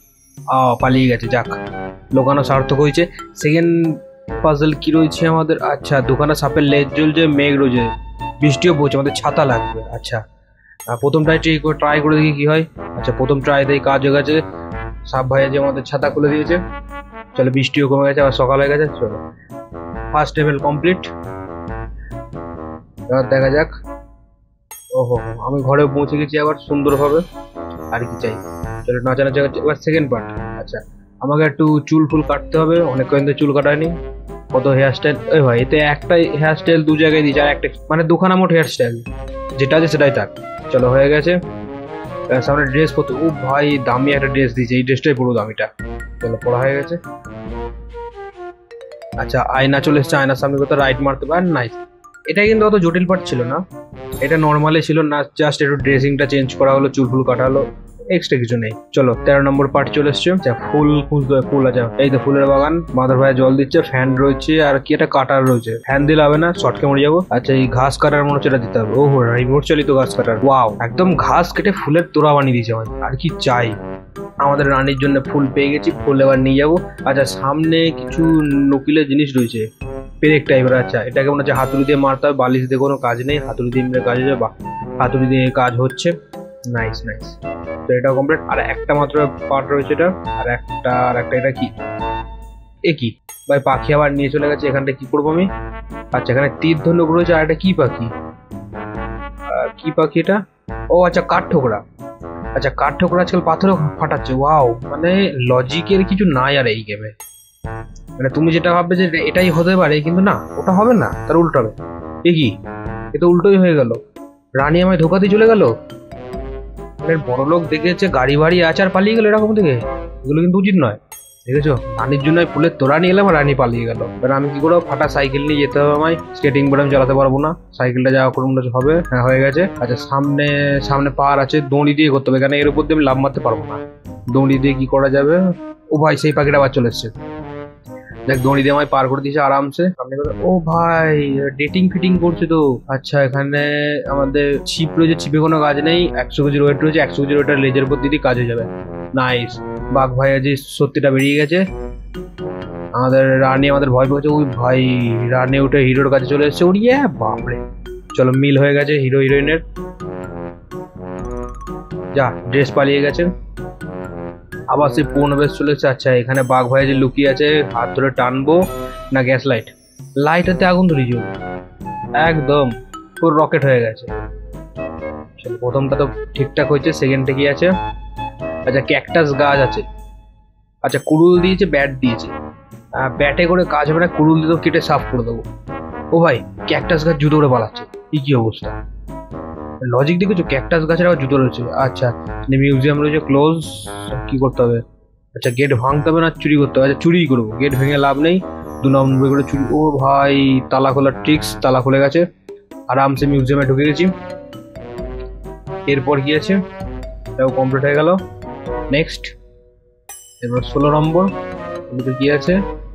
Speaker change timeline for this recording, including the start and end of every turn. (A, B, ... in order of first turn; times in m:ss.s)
0:00.5-0:01.6 A
0:02.1-0:10.2 A
0:10.9-0:14.4 A
0:15.1-0:16.6 A
0:17.4-0:19.2 A
0:20.1-0:21.1 A
0:23.1-0:23.7 A
0:24.9-0:27.2 A
0:27.9-0:34.0 A
0:34.5-0:39.0 A
0:39.6-0:41.4 A
0:42.3-0:45.7 A
0:46.2-0:47.0 A
0:49.2-0:53.6 A
0:54.2-1:13.8 A
1:14.4-1:19.7 A
1:20.2-1:26.2 A
1:26.7-1:31.8 A
1:32.8-1:35.5 A
1:36.1-1:38.1 A
1:39.5-1:41.8 A
1:42.6-1:47.2 A
1:48.2-1:52.6 A
1:53.1-1:54.0 A
1:54.6-1:55.7 A
1:57.0-2:17.1 A
2:18.3-2:31.7 A
2:33.0-2:37.6 A
2:38.1-2:39.6 A
2:42.1-2:43.3 A
2:44.7-2:51.4 A
2:52.2-2:54.1 A
2:55.4-2:57.7 A
2:58.7-2:59.9 A
3:00.8-3:02.3 A
3:03.0-3:05.5 A
3:06.1-3:08.8 A
3:09.8-3:14.8 A
3:15.4-3:22.3 A
3:22.9-3:24.1 A
3:25.9-3:26.6 A
3:27.4-3:28.2 A
3:28.9-3:29.4 A
3:30.4-3:31.3 A
3:31.9-3:32.6 A